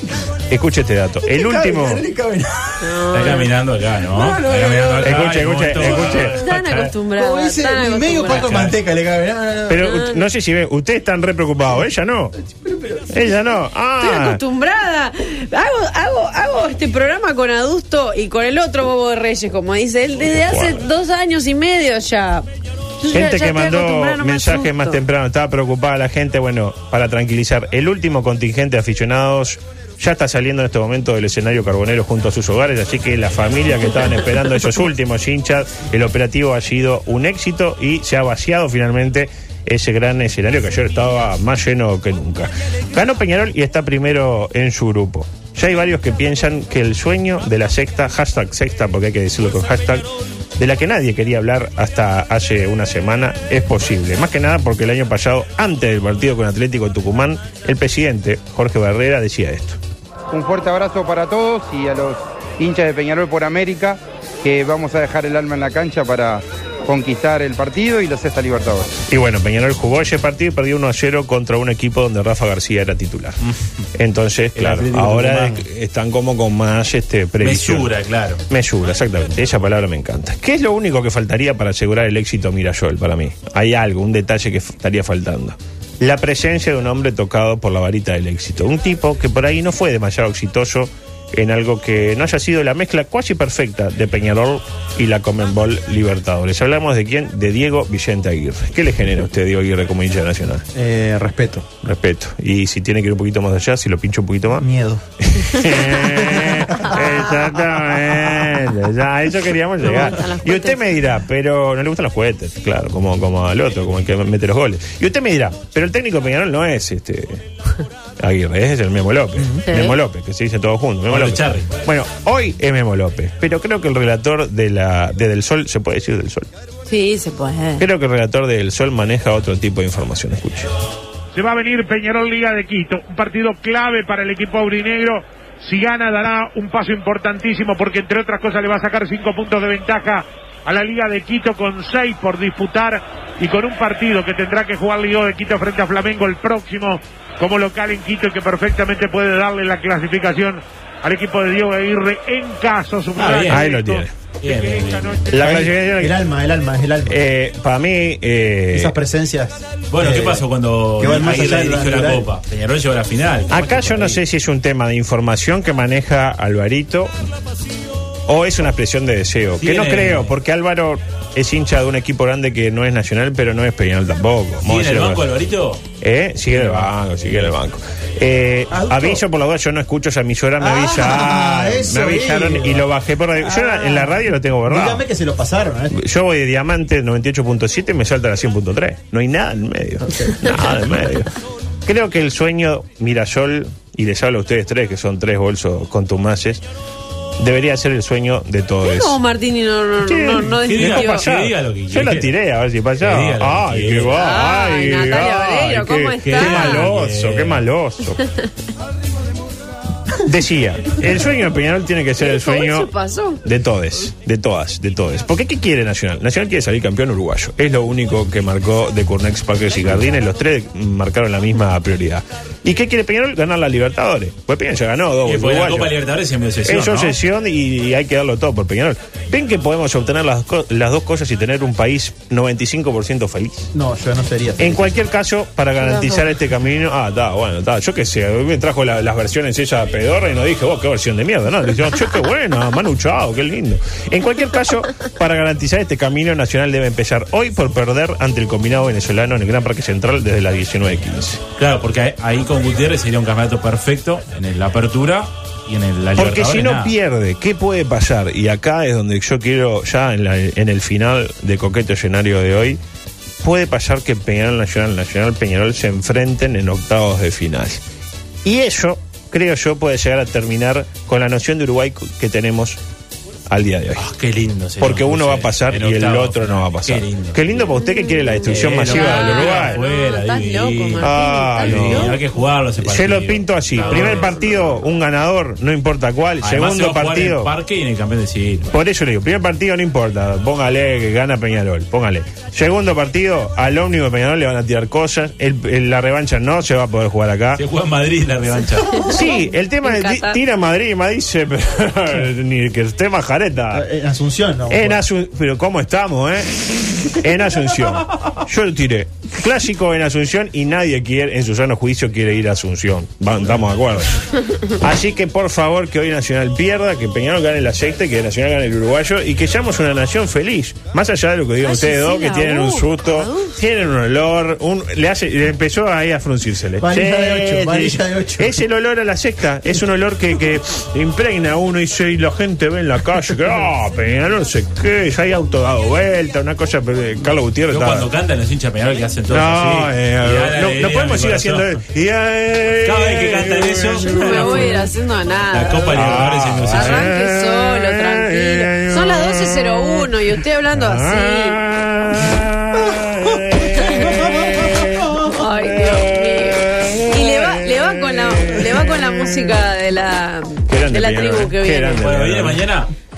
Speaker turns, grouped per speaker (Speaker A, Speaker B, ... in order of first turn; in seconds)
Speaker A: 0.5-2.1, 5.0-6.4, 9.7-12.3, 13.1-14.4, 20.3-20.8, 23.1-50.1, 50.6-59.8, 69.1-73.4, 74.0-77.9, 78.5-100.7, 101.8-104.7, 105.2-117.5, 118.2-126.5, 127.8-130.7, 153.5-154.1, 155.3-156.1, 157.1-158.9, 161.0-161.7, 163.5-167.1, 168.3-175.2, 176.0-185.0, 185.9-191.3, 191.8-196.6, 197.4-199.2, 200.0-208.2, 210.2-212.9, 213.4-225.9, 226.7-233.7, 234.6-251.4, 256.2-262.8, 263.4-267.8, 268.4-272.8, 273.5-274.0, 274.8-279.8, 281.0-282.2, 282.8-287.5, 288.7-297.6, 299.1-303.9, 304.7-338.1, 339.3-344.9, 345.9-359.6, 360.7-362.6
Speaker B: 1.2-3.2, 4.1-6.4, 7.2-10.1, 12.5-13.4, 100.7-101.7, 104.6-105.0, 105.9-107.0, 119.4-119.6, 153.2-153.5, 155.4-157.2, 158.7-162.3, 178.7-179.2, 180.6-186.0, 190.1-190.7, 233.7-234.9, 303.7-305.1, 326.8-328.6, 352.9-355.1
Speaker C: 2.8-3.5, 6.4-8.6, 9.8-10.2, 14.0-22.5, 23.0-25.0, 109.8-110.8, 119.7-120.0, 126.9-127.8, 198.8-201.3, 204.1-206.9, 212.2-213.4, 235.8-236.2, 278.0-282.2, 283.8-284.8, 298.9-300.4, 321.6-323.6, 344.0-351.6, 353.8-354.5, 355.2-362.0
Speaker D: 3.1-6.9, 8.3-8.8, 73.4-73.9, 74.6-75.7, 77.4-78.4, 121.1-121.7, 153.2-153.8, 154.4-155.3, 159.9-164.2, 169.6-170.3, 174.6-175.8, 176.5-177.5, 200.7-202.3, 203.0-204.2, 206.2-207.7, 225.2-227.2, 251.6-256.9, 274.0-277.4, 278.5-284.4, 286.4-288.7, 297.6-299.1, 337.7-341.8, 342.8-344.9, 345.5-347.1, 362.0-362.9
Speaker E: 60.3-69.0
Speaker F: 131.3-155.5